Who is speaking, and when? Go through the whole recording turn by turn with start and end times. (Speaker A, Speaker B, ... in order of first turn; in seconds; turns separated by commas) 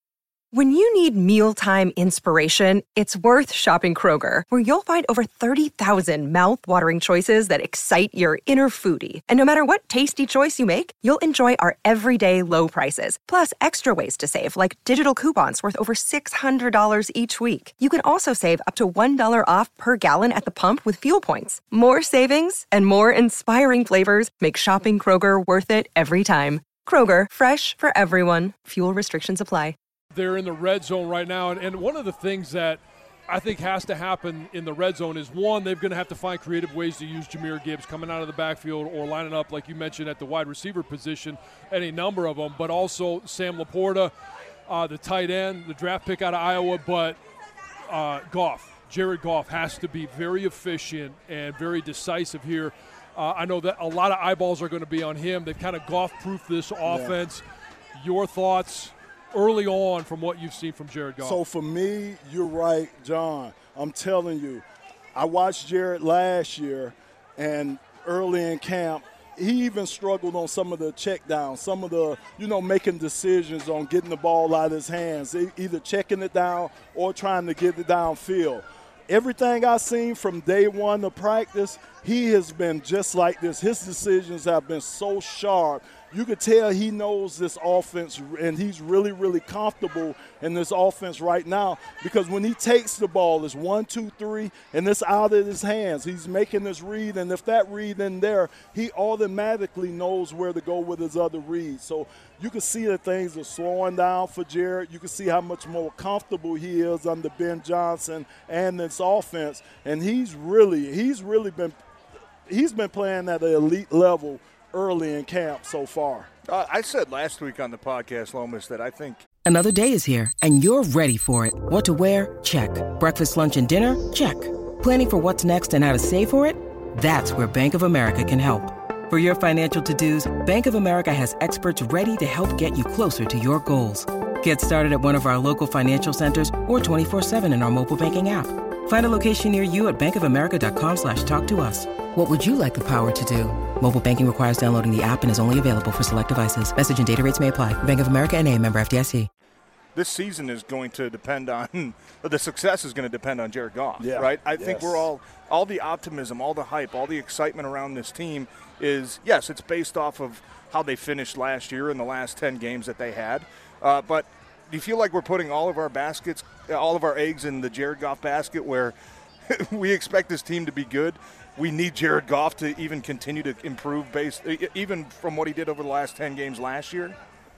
Speaker A: 0.5-29.8, Speaker B: 30.1-44.1, Speaker B: 44.7-47.2, Speaker B: 47.9-57.4, Speaker C: 56.8-57.2, Speaker B: 58.0-61.4, Speaker C: 61.2-64.6, Speaker C: 65.1-111.8, Speaker C: 112.5-116.3, Speaker D: 116.5-119.2, Speaker E: 119.5-149.3, Speaker D: 150.0-168.9, Speaker C: 154.0-155.1, Speaker D: 169.5-177.1